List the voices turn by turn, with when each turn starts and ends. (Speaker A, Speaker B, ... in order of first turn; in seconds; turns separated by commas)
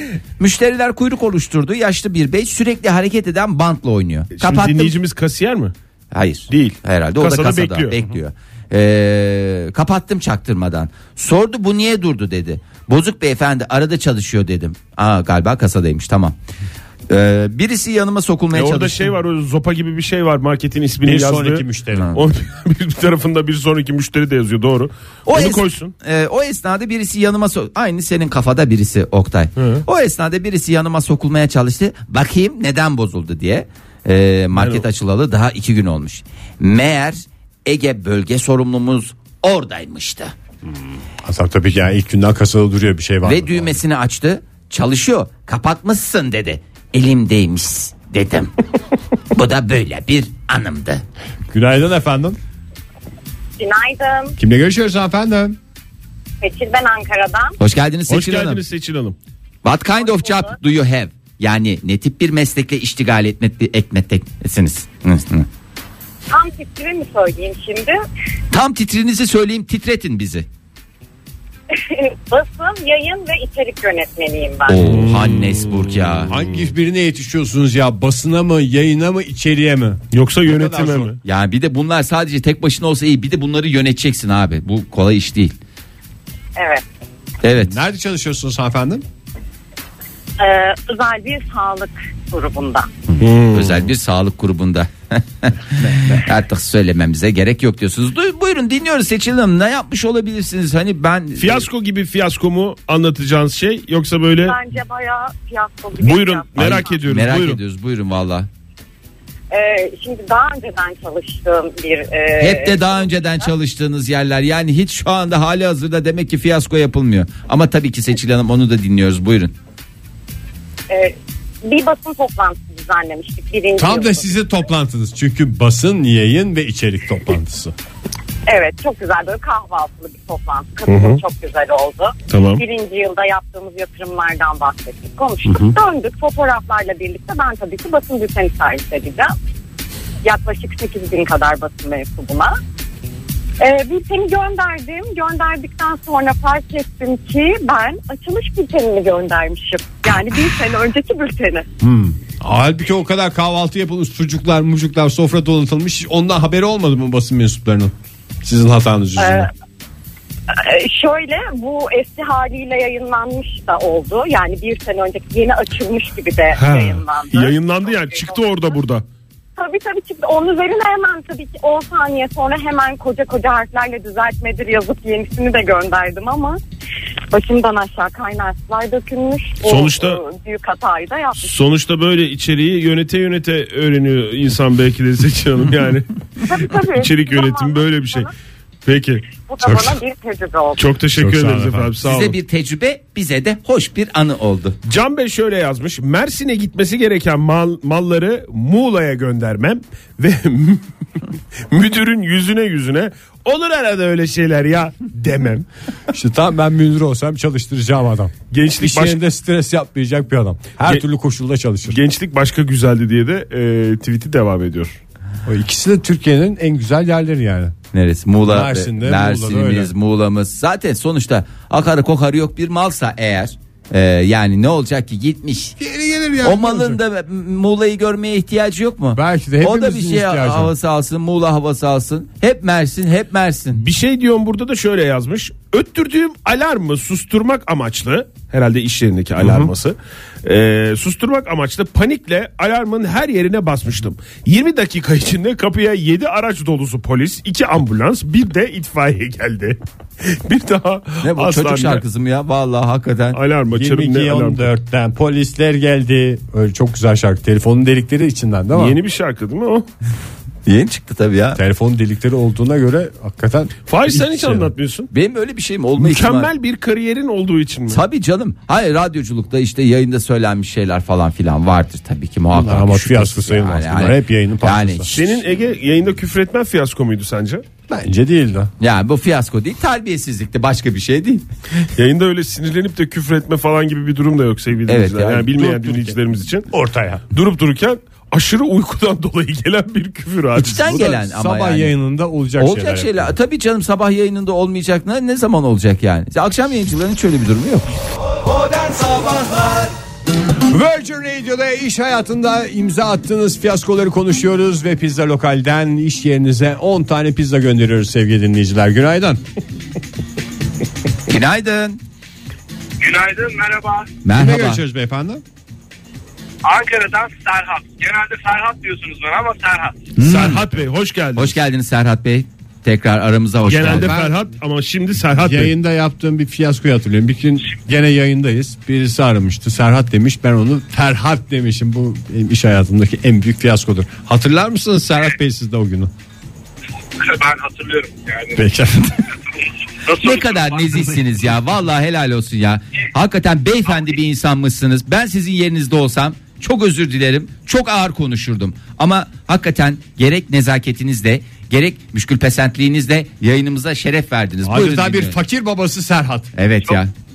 Speaker A: 0.4-5.0, Speaker B: 4.3-5.7, Speaker A: 6.1-16.4, Speaker B: 6.5-8.0, Speaker A: 17.1-19.1, Speaker B: 18.5-25.9, Speaker C: 21.0-22.1, Speaker A: 21.9-22.2, Speaker A: 25.3-40.3, Speaker B: 29.6-29.8, Speaker B: 34.6-34.9, Speaker C: 41.2-43.8, Speaker A: 43.2-48.5, Speaker A: 49.3-51.0, Speaker C: 51.5-52.4, Speaker D: 53.6-54.4, Speaker C: 54.4-55.6, Speaker D: 56.4-57.6, Speaker A: 57.6-58.6, Speaker B: 58.1-59.2, Speaker A: 59.6-65.5, Speaker D: 60.0-60.5, Speaker D: 66.3-68.0, Speaker A: 68.5-70.5, Speaker D: 71.7-74.8, Speaker A: 74.7-76.3, Speaker B: 74.8-76.3, Speaker C: 76.3-81.1, Speaker B: 80.1-81.2, Speaker A: 81.2-85.6, Speaker D: 86.6-86.8, Speaker A: 87.4-87.8, Speaker C: 87.6-89.0, Speaker D: 90.4-92.9, Speaker B: 93.2-93.9, Speaker A: 93.5-101.7, Speaker C: 95.8-96.2, Speaker B: 101.4-104.6, Speaker D: 104.4-107.0, Speaker B: 106.0-107.6, Speaker A: 106.6-108.5, Speaker D: 109.5-113.5, Speaker A: 112.4-119.5, Speaker D: 120.9-124.4, Speaker C: 123.8-127.7, Speaker D: 128.5-139.3, Speaker B: 130.9-131.2, Speaker B: 132.3-132.6, Speaker C: 135.5-135.7, Speaker D: 140.2-142.6, Speaker D: 143.6-151.7, Speaker C: 151.8-159.5, Speaker D: 159.2-159.5, Speaker D: 160.5-168.8, Speaker B: 166.6-169.0, Speaker D: 169.6-176.6, Speaker D: 177.3-181.6, Speaker B: 179.6-180.2, Speaker B: 181.4-188.3, Speaker D: 186.4-188.3, Speaker B: 188.8-189.2, Speaker D: 189.3-190.9, Speaker C: 189.6-190.0, Speaker B: 190.8-192.4, Speaker C: 191.2-191.9, Speaker A: 192.0-194.8, Speaker B: 194.9-200.8, Speaker B: 201.7-205.7, Speaker C: 206.1-212.0, Speaker B: 208.5-209.2, Speaker B: 211.9-215.0, Speaker C: 215.5-217.8, Speaker A: 217.9-225.8, Speaker C: 218.4-219.9, Speaker C: 225.8-227.0, Speaker A: 226.4-233.8, Speaker C: 229.1-230.7, Speaker B: 233.7-252.0, Speaker C: 239.4-239.7, Speaker A: 251.2-253.4, Speaker B: 253.3-254.7, Speaker C: 253.7-259.0, Speaker B: 258.7-259.9, Speaker A: 260.7-261.6, Speaker C: 261.6-264.7, Speaker B: 263.9-265.1, Speaker A: 265.1-266.5, Speaker B: 266.0-268.0, Speaker A: 267.9-275.3, Speaker C: 272.5-275.1, Speaker B: 275.1-277.6, Speaker C: 277.9-278.7, Speaker A: 278.8-281.5, Speaker B: 282.0-286.7, Speaker A: 284.9-286.1, Speaker C: 286.7-287.3, Speaker B: 287.3-290.9, Speaker A: 290.6-291.9, Speaker C: 290.8-293.3, Speaker A: 292.6-297.9, Speaker C: 299.0-299.8, Speaker C: 300.7-309.4, Speaker A: 311.3-312.0, Speaker E: 313.0-314.1, Speaker A: 314.2-314.8, Speaker C: 314.3-315.4, Speaker E: 316.6-320.1, Speaker A: 320.2-320.6, Speaker B: 320.2-321.6, Speaker A: 321.4-324.2, Speaker B: 323.6-325.7, Speaker C: 323.9-324.4, Speaker C: 325.3-336.1, Speaker E: 337.2-338.6, Speaker C: 338.6-339.2, Speaker E: 339.5-341.2, Speaker A: 340.1-355.4, Speaker C: 354.6-356.5, Speaker A: 356.6-357.1